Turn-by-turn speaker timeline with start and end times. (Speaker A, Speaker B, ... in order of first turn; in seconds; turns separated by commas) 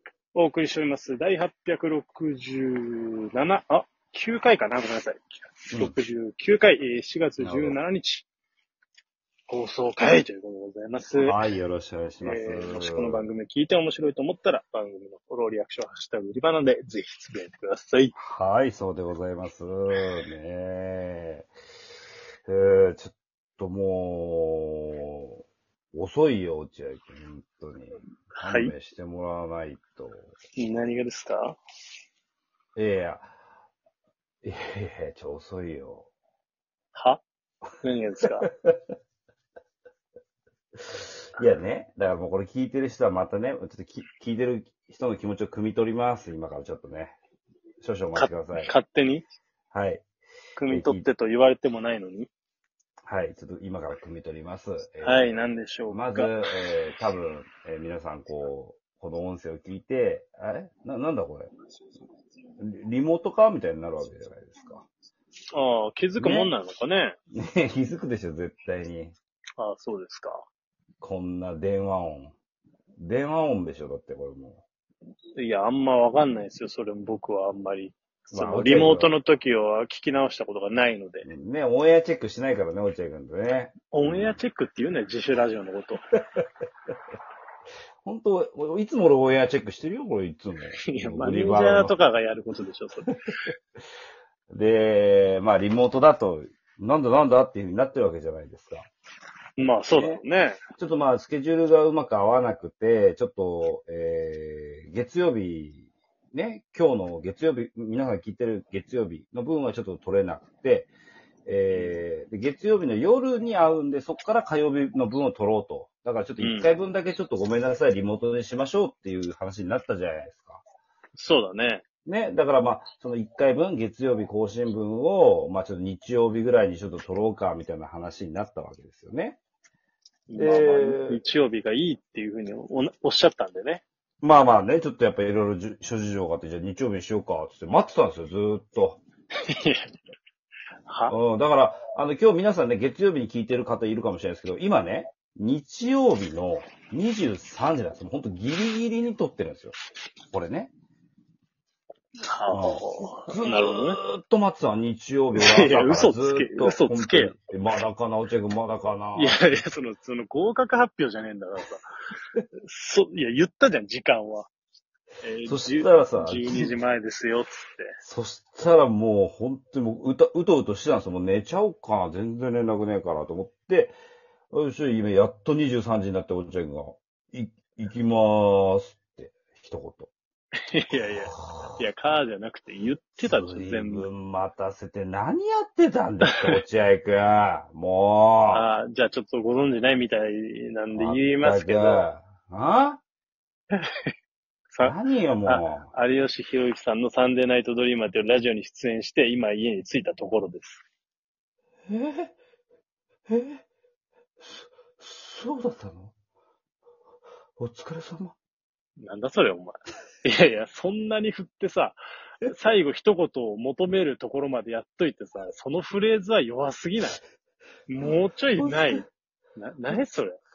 Speaker A: 0.3-8.3, Speaker B: 7.4-7.8, Speaker A: 9.5-11.4, Speaker B: 11.2-13.3, Speaker A: 12.2-18.1, Speaker B: 18.2-21.5, Speaker B: 22.5-25.4, Speaker B: 25.9-30.3, Speaker A: 28.4-28.7, Speaker A: 30.6-31.6, Speaker B: 32.8-33.3, Speaker B: 34.4-36.1, Speaker A: 36.9-37.2, Speaker A: 37.8-38.5, Speaker B: 38.2-38.8, Speaker B: 40.8-47.2, Speaker B: 47.8-48.7, Speaker A: 48.1-49.2, Speaker B: 49.7-50.0, Speaker A: 50.6-52.3, Speaker B: 50.7-51.1, Speaker B: 53.1-61.5, Speaker A: 55.0-56.4, Speaker B: 62.6-64.8, Speaker A: 65.5-67.2, Speaker B: 66.2-66.5, Speaker B: 67.3-69.2, Speaker A: 69.6-70.4, Speaker B: 71.0-72.3, Speaker B: 73.0-74.6, Speaker A: 75.4-81.3, Speaker B: 78.3-79.1, Speaker B: 81.2-84.4, Speaker A: 83.9-86.1, Speaker B: 88.0-91.9, Speaker A: 90.9-93.1, Speaker B: 94.5-98.9, Speaker A: 99.6-100.6, Speaker B: 99.9-100.2, Speaker B: 100.8-110.9, Speaker B: 111.5-120.6, Speaker A: 111.7-112.0, Speaker A: 116.4-116.7, Speaker A: 121.2-121.8, Speaker B: 122.1-129.4, Speaker A: 130.3-133.8, Speaker B: 130.4-131.2, Speaker B: 134.2-139.0, Speaker A: 139.4-139.9, Speaker A: 140.9-141.2, Speaker B: 141.1-149.8, Speaker B: 150.3-150.7, Speaker A: 152.3-154.0, Speaker B: 152.5-159.6, Speaker A: 155.4-157.3, Speaker A: 159.2-161.9, Speaker A: 162.7-164.5, Speaker A: 165.2-167.9, Speaker B: 165.4-166.8, Speaker B: 168.0-173.9, Speaker B: 174.5-180.1, Speaker A: 180.7-184.1, Speaker B: 181.3-181.8, Speaker B: 183.2-188.7, Speaker A: 188.5-192.1, Speaker B: 190.9-193.0, Speaker A: 193.7-194.1, Speaker A: 194.7-200.8, Speaker B: 194.8-195.9, Speaker B: 201.9-202.3, Speaker B: 203.3-203.6, Speaker B: 204.4-206.2, Speaker B: 207.6-208.3, Speaker A: 209.0-217.2, Speaker A: 217.9-219.1, Speaker B: 218.0-219.1, Speaker A: 219.6-220.4